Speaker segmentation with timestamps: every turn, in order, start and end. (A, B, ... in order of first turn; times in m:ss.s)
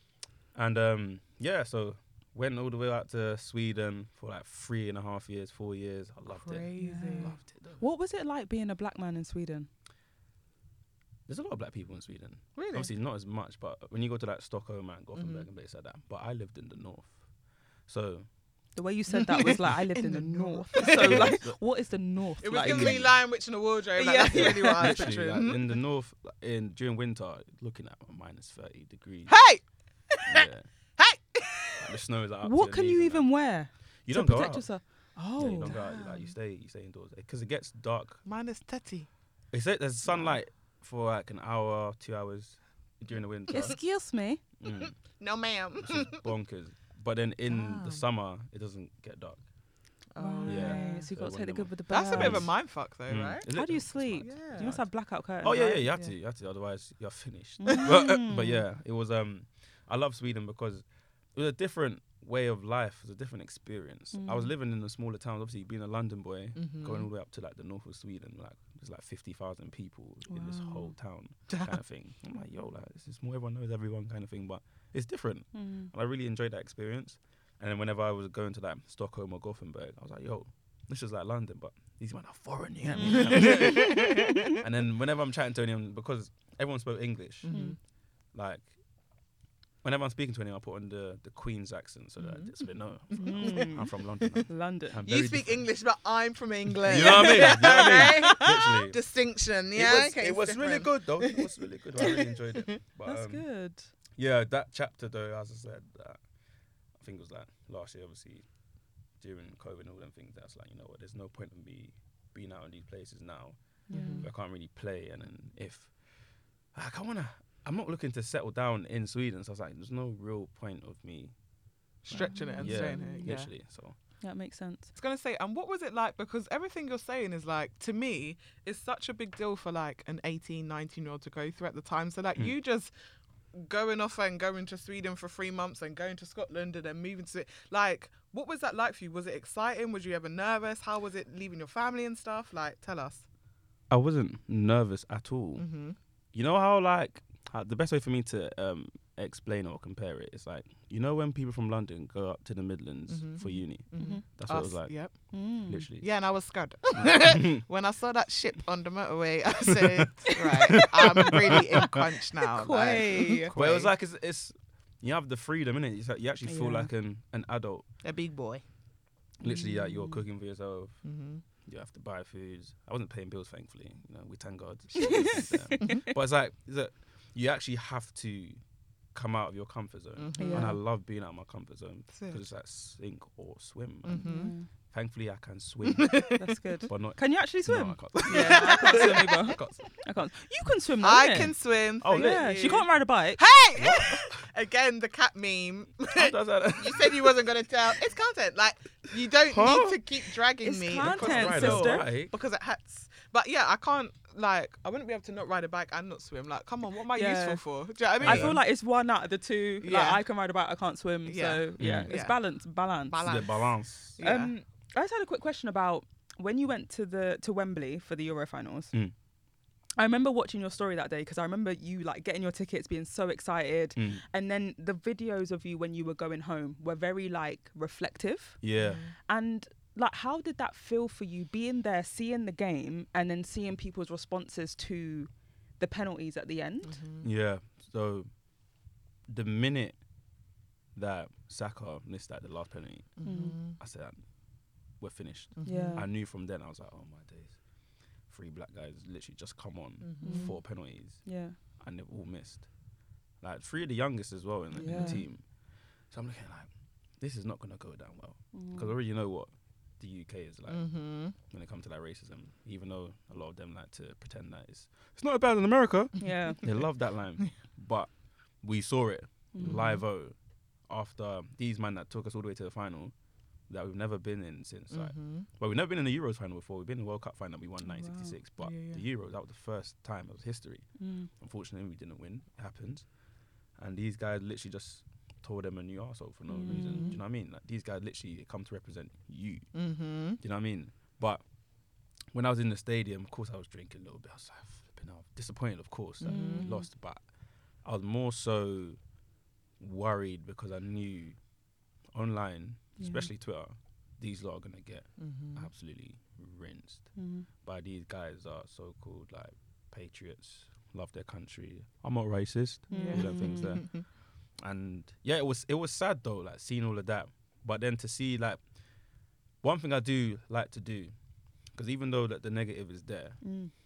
0:00.5-0:07.8 A
0:06.3-0:07.4 B
0:06.8-0:09.7 C
0:11.3-0:17.2 A
0:12.5-0:12.9 B
0:17.9-0:18.3 A
0:18.8-0:23.1 C
0:19.1-0:21.4 B
0:20.8-0:21.6 A
0:22.4-0:25.7 B
0:22.6-0:23.2 A
0:24.0-0:25.1 C
0:24.3-0:29.4 A
0:29.3-0:32.0 B
0:30.2-0:30.7 A
0:31.8-0:33.3 A
0:32.4-0:36.1 C
0:34.0-0:34.7 A
0:35.4-0:38.2 A
0:38.2-0:39.1 B
0:39.5-0:43.8 A
0:40.0-0:40.4 B
0:43.5-0:44.4 C
0:44.6-0:45.0 A
0:44.7-0:46.2 B
0:45.8-0:49.4 A
0:47.4-0:48.0 B
0:50.1-0:51.1 B
0:50.2-0:52.5 C
0:50.4-1:27.6 A
0:51.9-0:53.5 B
0:53.5-0:55.9 C
0:54.2-0:54.8 B
0:57.6-0:58.6 C
1:04.1-1:04.5 C
1:06.6-1:07.1 B
1:10.3-1:10.9 C
1:11.5-1:11.8 B
1:15.5-1:15.9 C
1:22.9-1:24.6 C
1:23.0-1:24.0 B
1:27.4-1:27.8 B
1:27.5-1:27.8 C
1:28.3-1:28.7 A
1:29.8-1:35.7 A
1:32.2-1:32.5 B
1:33.1-1:34.5 B
1:33.1-1:33.9 C
1:34.5-1:35.0 C
1:35.0-1:42.8 B
1:36.8-1:39.0 A
1:36.9-1:38.4 C
1:39.7-1:43.4 A
1:43.0-1:43.9 C
1:44.2-1:46.2 A
1:47.0-1:48.4 A
1:49.2-1:55.9 A
1:53.9-1:54.3 C
1:53.9-1:54.3 B
1:56.7-2:01.3 A
2:02.0-2:03.5 B
2:02.1-2:03.9 A
2:02.1-2:03.3 C
2:04.2-2:04.9 C
2:04.9-2:12.9 B
2:13.5-2:23.2 B
2:23.9-2:25.7 A
2:25.6-2:26.0 B
2:26.3-2:35.1 A
2:33.1-2:35.4 B
2:34.0-2:34.2 C
2:35.3-2:35.8 C
2:35.6-2:36.1 A
2:36.0-2:43.9 B
2:36.9-2:37.6 A
2:39.7-2:42.1 A
2:42.5-2:43.5 C
2:43.5-2:47.8 A
2:46.4-2:46.9 C
2:48.0-2:48.6 B
2:49.4-2:51.0 A
2:49.4-2:50.2 C
2:51.0-2:51.4 B
2:51.6-2:58.6 A
2:55.0-2:56.0 C
2:55.8-2:56.1 B
2:59.1-3:06.3 A
3:00.2-3:00.8 B
3:00.4-3:00.8 C
3:02.1-3:02.4 B
3:04.0-3:04.5 B
3:04.2-3:04.7 C
3:05.8-3:06.5 B
3:06.3-3:11.5 C
3:06.9-3:09.8 A
3:08.2-3:09.6 B
3:11.0-3:28.6 B
3:12.0-3:12.6 A
3:12.1-3:13.4 C
3:13.7-3:14.4 A
3:16.1-3:17.4 A
3:19.4-3:20.1 A
3:20.6-3:22.0 C
3:21.0-3:22.3 A
3:27.1-3:27.6 C
3:28.2-3:28.6 A
3:28.2-3:33.4 C
3:29.8-3:30.2 B
3:31.2-3:32.4 B
3:31.8-3:32.1 A
3:33.1-3:34.5 B
3:33.2-3:34.2 A
3:34.2-3:38.9 C
3:40.0-3:57.0 C
3:44.0-3:44.2 A
3:48.6-3:49.0 A
3:48.8-3:49.1 B
3:56.8-3:57.3 B
3:57.2-3:58.3 A
3:59.3-4:00.0 A
4:00.9-4:04.2 A
4:03.2-4:03.8 B
4:03.2-4:03.6 C
4:05.0-4:07.6 A
4:05.6-4:06.0 B
4:05.6-4:06.1 C
4:08.3-4:11.2 A
4:10.0-4:10.6 B
4:10.2-4:11.6 C
4:11.8-4:12.7 A
4:13.4-4:15.4 A
4:14.7-4:15.2 C
4:14.8-4:15.2 B
4:16.1-4:28.1 A
4:18.5-4:19.0 C
4:20.7-4:21.3 B
4:26.2-4:26.6 C
4:28.6-4:30.4 A
4:29.5-4:30.0 C
4:30.9-4:33.1 A
4:33.7-4:43.1 A
4:34.9-4:35.5 B
4:37.8-4:38.3 C
4:38.6-4:39.0 B
4:41.0-4:41.3 C
4:43.8-4:49.7 A
4:46.5-4:47.2 C
4:46.7-4:47.2 B
4:49.7-4:50.4 B
4:50.4-4:51.4 A
4:52.3-4:57.2 A
4:56.2-4:56.7 B
4:56.2-4:56.9 C
4:57.8-4:59.0 A
4:59.8-5:01.4 A
5:02.1-5:07.1 A
5:03.0-5:03.3 C
5:05.2-5:05.7 B
5:07.2-5:07.5 C
5:07.6-5:14.0 A
5:12.9-5:13.8 C
5:12.9-5:14.0 B
5:14.6-5:18.6 A
5:19.6-5:21.1 A
5:21.7-5:23.4 A
5:23.4-5:23.7 C